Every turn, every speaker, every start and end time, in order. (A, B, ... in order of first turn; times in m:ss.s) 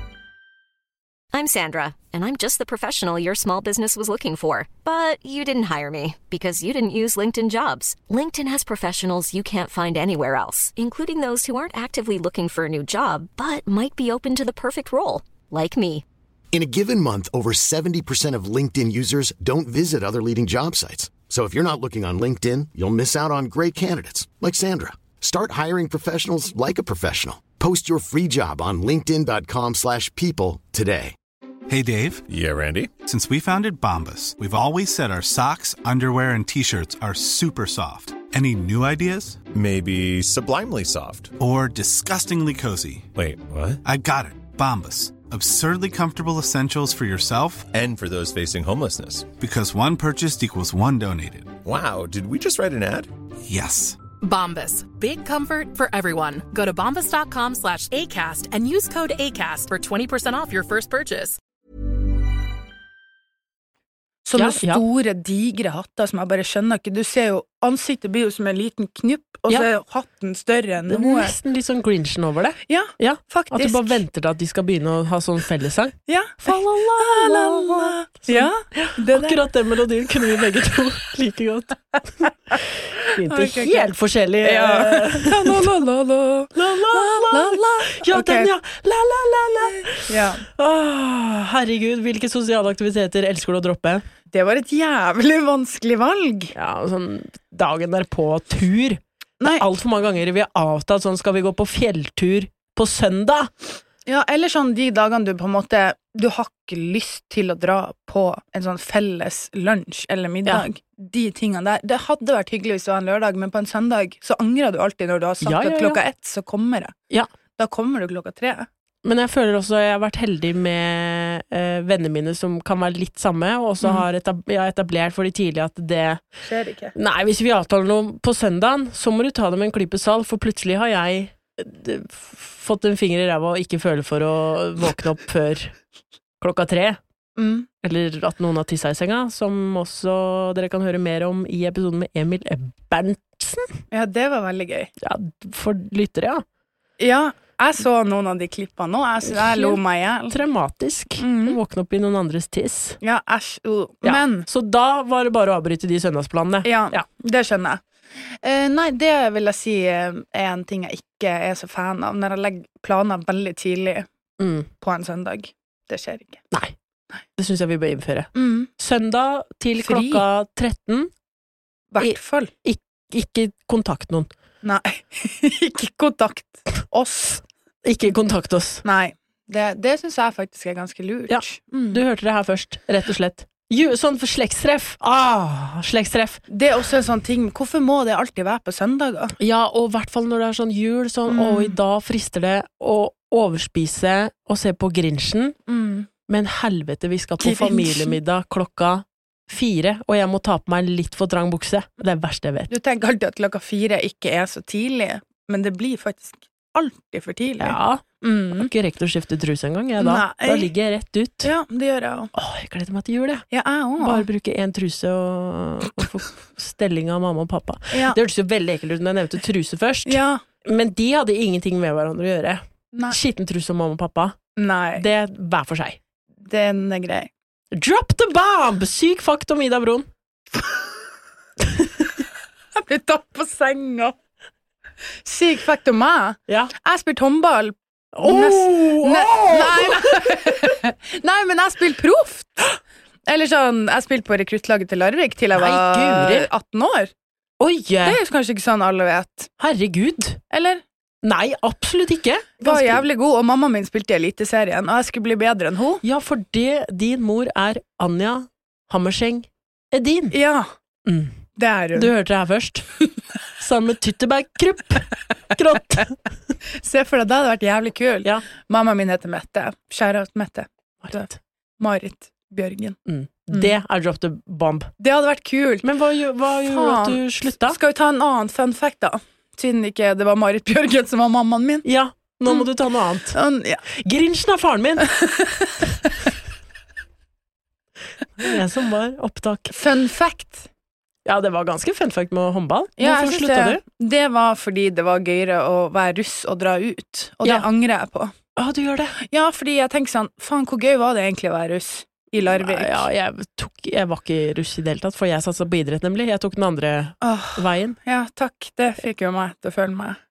0:01.3-0:16.0 A
0:16.5-0:31.1 B
0:31.7-0:32.3 C
0:32.3-0:32.9 D
0:33.0-0:39.4 C
0:39.5-0:41.3 D
0:41.4-0:43.1 C
0:43.1-0:43.8 D
0:43.8-0:47.7 C
0:47.7-0:49.3 D
0:49.4-0:51.6 C
0:51.6-0:53.1 D
0:53.5-0:54.0 C
0:54.2-1:01.4 E
1:04.2-1:11.3 F
1:04.4-1:04.8 G
1:10.9-1:22.3 G
1:12.7-1:14.0 F
1:16.1-1:19.4 F
1:23.0-1:25.7 G
1:23.3-1:28.5 F
1:26.6-1:34.0 G
1:29.9-1:30.4 F
1:34.3-1:36.5 F
1:36.5-1:43.5 G
1:39.4-1:39.6 F
1:44.1-1:56.9 F
1:55.4-1:56.0 G
1:57.6-1:58.7 F
1:59.0-2:06.2 G
2:06.4-2:06.9 F
2:06.9-2:15.7 G
2:16.4-2:17.0 G
2:17.4-2:17.7 F
2:17.8-2:23.8 G
2:23.9-2:24.9 F
2:25.0-2:26.4 G
2:27.0-2:30.4 F
2:29.3-2:29.8 G
2:30.3-2:33.0 G
2:31.2-2:31.6 F
2:33.0-2:34.5 F
2:34.0-2:37.0 G
2:36.6-2:44.1 F
2:44.4-2:44.7 G
2:44.8-2:46.4 F
2:47.4-2:51.1 G
2:48.4-2:48.7 F
2:49.8-2:50.2 F
2:51.9-2:52.5 F
2:52.0-2:54.3 G
2:54.6-2:57.4 F
2:57.8-2:58.8 G
2:58.8-3:02.0 F
3:01.3-3:06.4 G
3:06.5-3:09.4 F
3:09.4-3:15.6 G
3:11.3-3:11.8 F
3:15.7-3:16.1 F
3:16.3-3:22.7 G
3:17.4-3:18.2 F
3:22.7-3:28.7 F
3:27.6-3:31.5 G
3:30.0-3:30.7 F
3:31.4-3:32.3 F
3:32.3-3:33.4 G
3:33.5-3:34.3 F
3:34.0-3:44.4 G
3:37.9-3:38.2 F
3:40.1-3:40.4 F
3:44.6-3:45.1 F
3:45.0-3:46.0 G
3:46.4-3:47.3 F
3:47.7-3:50.1 G
3:52.8-3:54.1 F
3:55.2-4:07.1 F
3:58.2-4:00.7 G
4:05.6-4:06.5 G
4:07.6-4:08.2 G
4:08.0-4:09.5 F
4:09.6-4:10.4 G
4:10.5-4:10.8 F
4:11.2-4:13.0 G
4:12.6-4:16.0 F
4:16.0-4:20.4 G
4:20.3-4:20.7 F
4:21.1-4:21.4 G
4:21.6-4:22.1 F
4:22.0-4:22.9 G
4:23.6-4:26.1 G
4:26.8-4:33.0 F
4:31.0-4:31.3 G
4:33.1-4:34.9 G
4:35.0-4:35.9 F
4:35.8-4:37.8 G
4:36.6-4:41.9 F
4:41.8-4:43.4 G
4:43.3-4:43.8 F
4:43.9-4:45.1 G
4:45.1-4:45.7 F
4:48.4-4:49.7 G
4:49.7-4:50.7 F
4:51.2-4:53.8 G
4:53.0-4:58.3 F
4:58.6-4:59.2 G
4:59.2-5:03.1 F
5:02.4-5:07.9 G
5:07.2-5:10.2 F